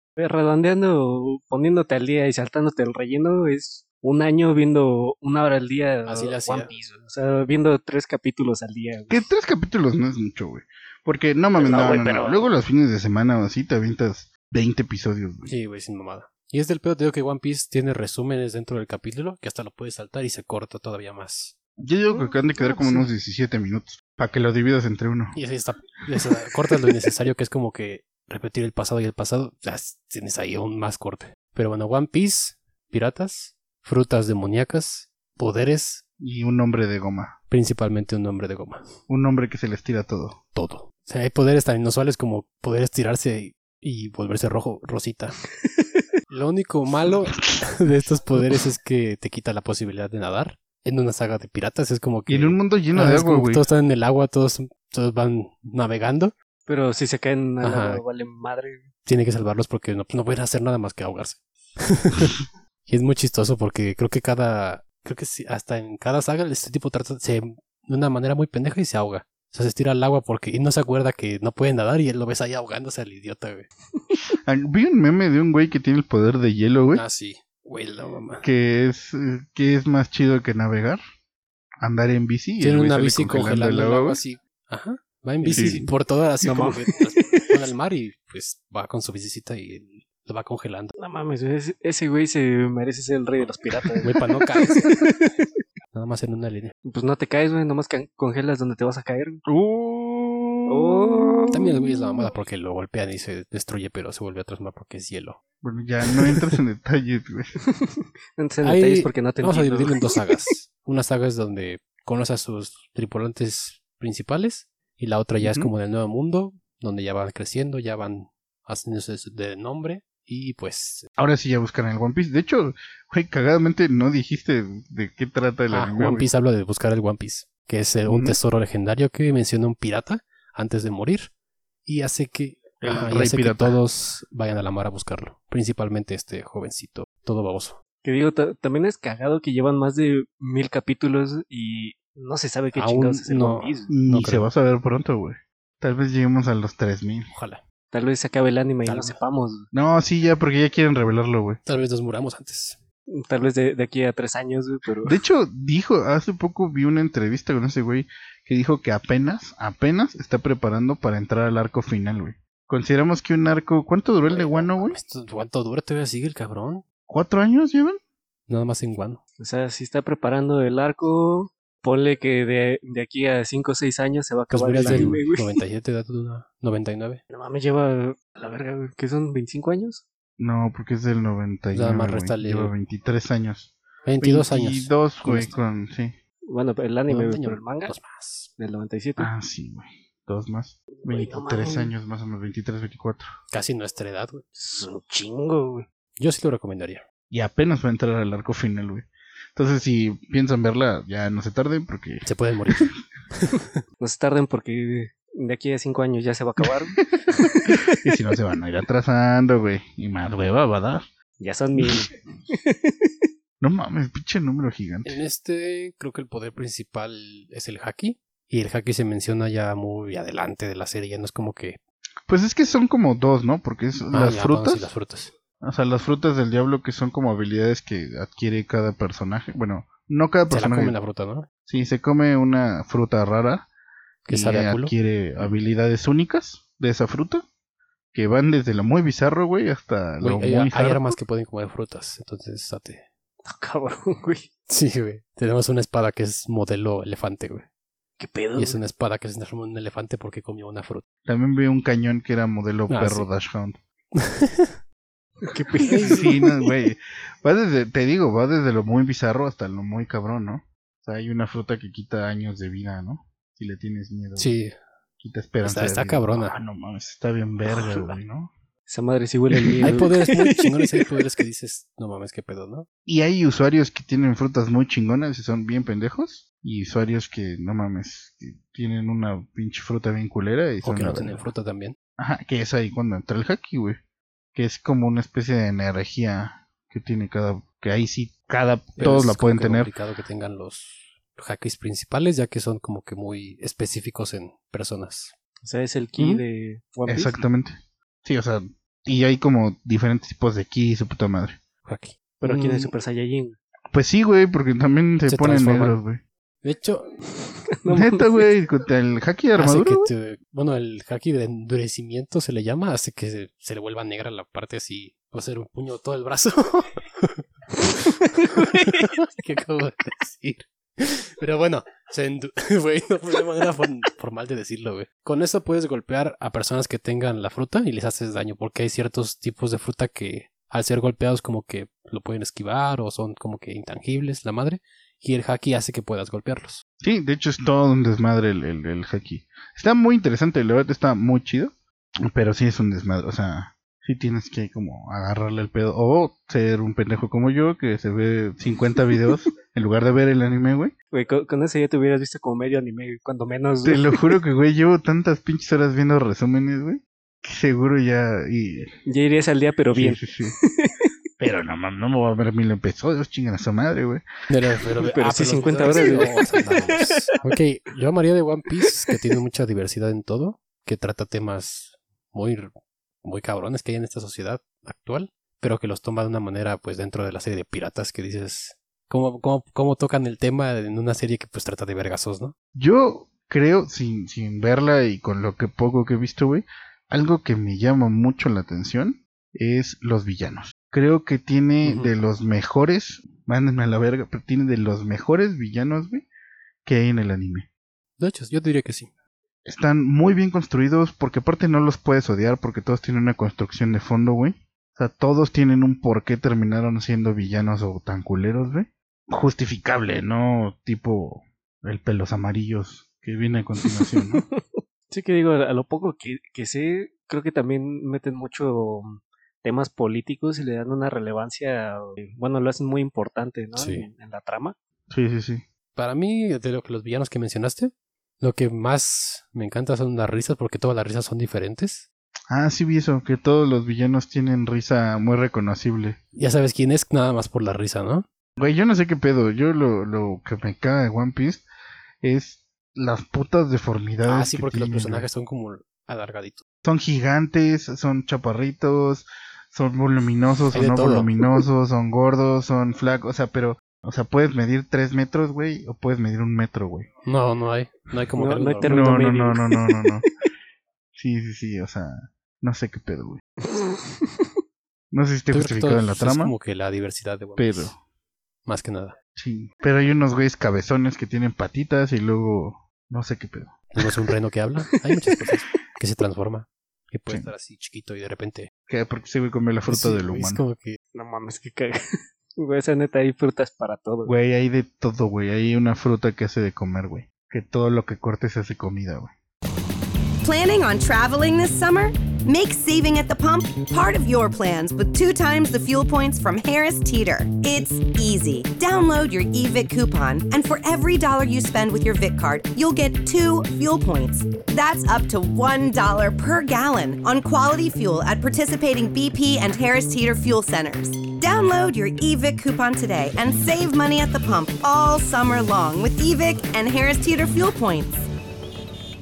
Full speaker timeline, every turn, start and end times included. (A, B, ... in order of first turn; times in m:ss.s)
0:00.2-0:09.3 A
0:06.1-0:06.7 B
0:09.1-0:15.5 C
0:11.6-0:12.5 A
0:15.4-0:21.6 B
0:21.8-0:25.4 C
0:22.1-0:23.1 A
0:25.3-0:36.0 B
0:36.2-0:37.4 C
0:37.5-0:38.9 B
0:39.1-0:40.4 C
0:40.5-0:45.4 B
0:45.6-0:46.0 A
0:46.3-0:56.3 B
0:52.3-0:53.7 C
0:56.7-0:58.9 A
0:57.6-0:58.0 B
0:59.0-1:13.7 B
1:14.4-1:17.0 C
1:16.9-1:18.4 B
1:18.4-1:21.0 C
1:21.8-1:24.2 C
1:22.6-1:30.9 B
1:25.4-1:25.9 C
1:25.5-1:25.8 A
1:26.4-1:27.7 A
1:31.0-1:35.4 A
1:34.0-1:35.0 B
1:35.9-1:36.7 B
1:36.9-1:39.4 A
1:39.5-1:41.4 C
1:40.7-1:41.8 A
1:41.5-1:45.4 B
1:45.6-1:47.6 C
1:47.7-1:50.5 A
1:48.6-2:01.1 B
1:55.4-1:55.7 C
2:01.2-2:06.3 C
2:05.7-2:11.3 B
2:08.1-2:08.4 C
2:11.8-2:17.8 B
2:12.8-2:13.8 C
2:18.0-2:23.9 A
2:22.8-2:24.5 B
2:23.9-2:27.3 C
2:27.3-2:27.6 B
2:27.9-2:29.6 A
2:28.8-2:29.2 B
2:29.7-2:31.6 C
2:31.6-2:32.8 B
2:33.1-2:35.2 A
2:35.1-2:45.0 C
2:44.3-2:46.8 B
2:47.1-2:48.0 C
2:48.5-2:49.2 B
2:49.4-2:55.6 A
2:54.5-2:57.2 B
2:54.8-2:55.2 C
2:57.3-3:00.0 A
3:00.4-3:06.2 C
3:01.7-3:02.7 B
3:04.1-3:05.5 B
3:06.5-3:08.0 A
3:07.1-3:08.5 B
3:08.6-3:09.3 A
3:09.2-3:13.3 C
3:11.0-3:11.9 A
3:13.5-3:14.4 B
3:14.6-3:15.9 A
3:16.2-3:17.0 B
3:17.3-3:22.9 C
3:22.2-3:23.8 B
3:24.0-3:28.0 A
3:28.0-3:31.0 C
3:31.4-3:33.1 A
3:31.8-3:32.1 C
3:33.6-3:35.2 C
3:35.0-3:41.8 B
3:42.3-3:44.9 C
3:44.1-3:45.3 B
3:45.6-3:51.0 C
3:50.5-3:51.5 B
3:51.7-3:53.7 C
3:54.2-3:55.5 B
3:54.3-3:57.4 C
3:58.1-4:01.1 C
4:00.2-4:03.1 B
4:03.4-4:04.5 A
4:04.7-4:07.7 B
4:08.2-4:08.8 A
4:08.6-4:11.0 B
4:11.3-4:13.8 C
4:12.9-4:13.3 B
4:14.2-4:14.8 B
4:15.4-4:16.5 A
4:15.9-4:16.4 B
4:16.0-4:24.5 C
4:24.4-4:24.8 B
4:25.2-4:28.5 C
4:25.6-4:26.6 B
4:27.7-4:28.2 A
4:28.9-4:31.2 A
4:29.7-4:30.1 C
4:29.8-4:32.9 B
4:33.1-4:41.4 C
4:40.8-4:42.0 B
4:42.2-4:44.0 C
4:44.6-4:49.9 C
4:49.0-4:55.4 B
4:55.6-4:57.4 A
4:57.1-5:01.6 C
5:01.8-5:02.3 B
5:02.4-5:03.6 A
5:02.4-5:02.9 C
5:03.9-5:06.2 C
5:05.3-5:06.0 B
5:06.6-5:07.1 B
5:07.4-5:08.5 A
5:07.9-5:10.1 C
5:09.6-5:36.8 B
5:37.0-5:41.7 C
5:42.2-5:50.9 C
5:51.1-5:54.4 A
5:53.8-5:58.9 C
5:59.1-6:01.1 A
5:59.9-6:00.6 C
6:01.4-6:04.2 C
6:04.5-6:22.5 B
6:05.0-6:07.3 A
6:05.8-6:06.3 C
6:08.9-6:09.2 A
6:22.8-6:36.3 C
6:31.8-6:32.1 A
6:36.8-6:37.7 C
6:38.2-6:39.1 B
6:39.6-6:54.4 C
6:53.8-7:04.8 A
7:03.8-7:04.1 B
7:05.1-7:05.6 C
7:06.0-7:12.1 B
7:12.5-7:16.2 C
7:16.4-7:18.3 B
7:18.6-7:21.6 C
7:22.2-7:25.3 C
7:24.2-7:26.6 B
7:26.8-7:37.1 C
7:30.7-7:31.3 B
7:37.2-7:39.1 B
7:38.4-7:40.1 A
7:38.8-7:40.3 C
7:41.2-7:43.4 C
7:43.7-7:44.5 A
7:45.1-7:46.6 C
7:45.5-7:47.9 B
7:47.6-7:48.0 C
7:48.6-7:49.2 B
7:49.4-7:53.8 C
7:53.9-7:58.7 B
7:58.9-8:00.6 C
7:59.9-8:01.0 B
8:01.1-8:04.3 A
8:04.3-8:09.3 C
8:10.4-8:38.3 D